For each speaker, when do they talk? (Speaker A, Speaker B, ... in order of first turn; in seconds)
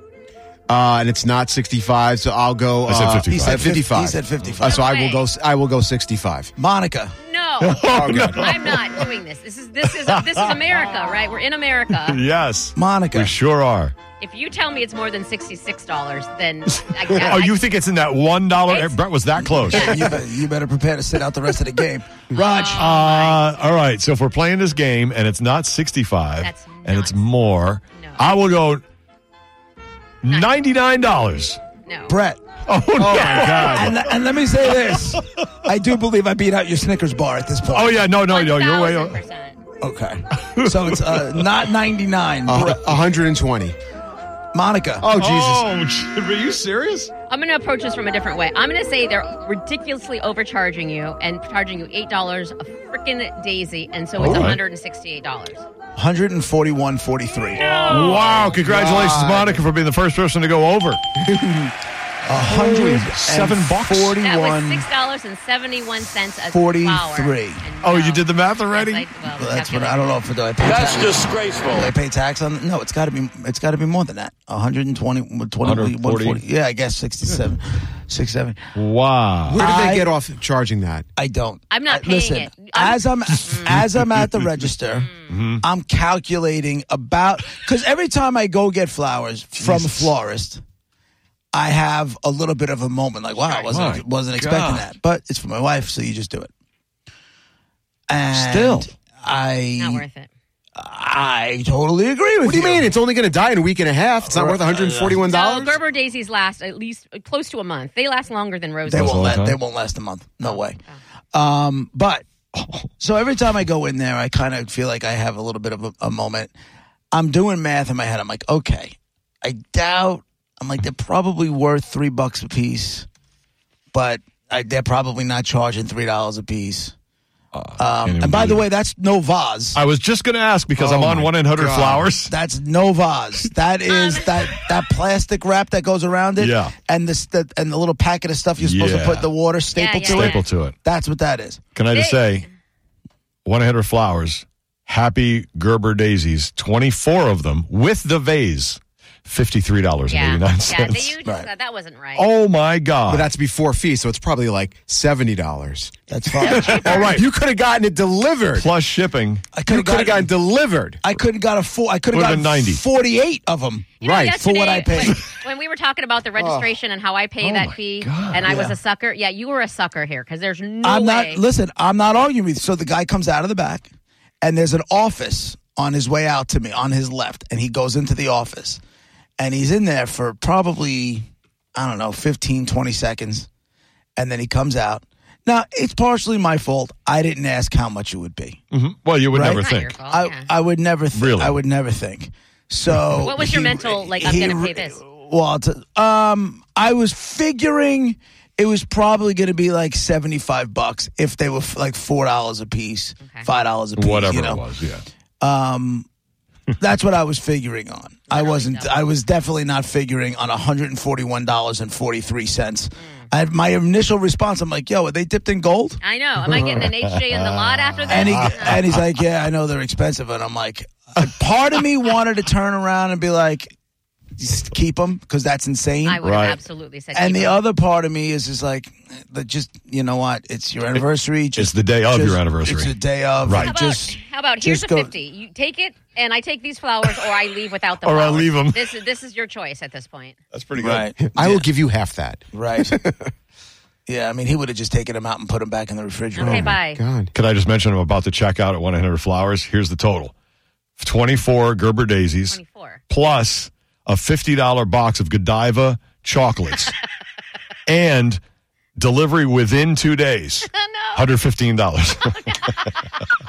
Speaker A: 0.7-6.5, 7.8-8.6, 32.9-34.0, 42.4-43.8, 45.0-45.7, 58.6-59.6, 79.5-81.1, 98.4-98.8, 102.4-105.8, 130.7-132.1, 153.1-155.9, 156.4-158.7, 159.6-161.0, 164.0-164.4, 166.4-166.7, 241.2-243.3, 246.4-247.3
Speaker B: 2.9-3.8, 7.6-9.0, 9.9-10.7, 11.9-13.9, 16.8-20.2, 22.7-28.8, 30.2-31.6, 32.6-34.1, 34.7-35.4, 37.7-39.2, 40.4-41.5, 45.1-47.1, 54.2-54.6, 57.7-61.0, 62.3-64.2, 67.8-69.1, 75.6-76.4, 78.7-79.6, 83.7-84.5, 85.3-85.6, 89.6-90.1, 93.7-94.9, 98.3-98.8, 108.9-109.6, 112.5-112.9, 127.5-128.7, 129.7-132.3, 136.4-136.7, 138.6-139.3, 140.1-140.7, 141.7-142.5, 143.4-151.2, 152.2-153.3, 156.5-157.2, 158.6-159.5, 162.1-162.8, 167.4-168.5, 188.7-189.9, 191.1-191.6, 203.9-205.0, 216.5-219.0, 226.2-226.6, 231.6-233.7, 238.0-238.9, 240.5-241.2, 247.3-250.3, 251.0-256.9, 257.9-258.4, 259.0-262.9
Speaker C: 3.3-4.8, 6.5-7.2, 12.8-13.3, 19.4-22.9, 32.1-32.4, 33.1-38.0, 39.8-42.9, 44.5-45.1, 56.0-57.9, 62.2-64.8, 66.5-67.6, 69.3-78.6, 79.5-80.1, 81.2-90.6, 91.5-96.5, 98.1-100.0, 100.8-102.9, 104.3-105.2, 108.9-110.8, 111.3-112.2, 113.0-116.5, 117.1-123.1, 123.9-126.9, 127.8-129.8, 132.3-141.6, 156.1-157.2, 159.5-160.3, 161.0-165.2, 168.4-168.8, 170.8-173.9, 174.4-178.8, 179.4-183.5, 184.2-188.6, 189.3-204.6, 205.4-206.1, 206.8-216.0, 218.1-223.7, 224.4-226.2, 227.1-235.1, 240.8-241.7, 242.5-243.0, 244.1-246.7
Speaker D: 4.6-5.3, 7.2-12.2, 14.2-17.6, 18.7-19.0, 19.7-20.0, 22.3-23.5, 26.4-27.2, 27.9-28.2, 31.9-32.2, 38.3-39.5, 47.3-55.6, 57.6-58.3, 64.2-70.2, 81.7-83.7, 93.4-93.7, 99.8-100.3, 105.2-109.2, 110.4-111.0, 133.9-134.3, 139.7-140.4, 141.9-142.4, 150.1-152.3, 156.5-156.8, 164.0-171.4, 189.4-190.5, 193.2-195.0, 203.2-203.5, 208.3-209.0, 213.0-213.3, 216.0-218.8, 226.0-227.6, 233.6-240.3, 246.4-247.0, 252.5-253.0, 260.7-261.3, 262.4-262.9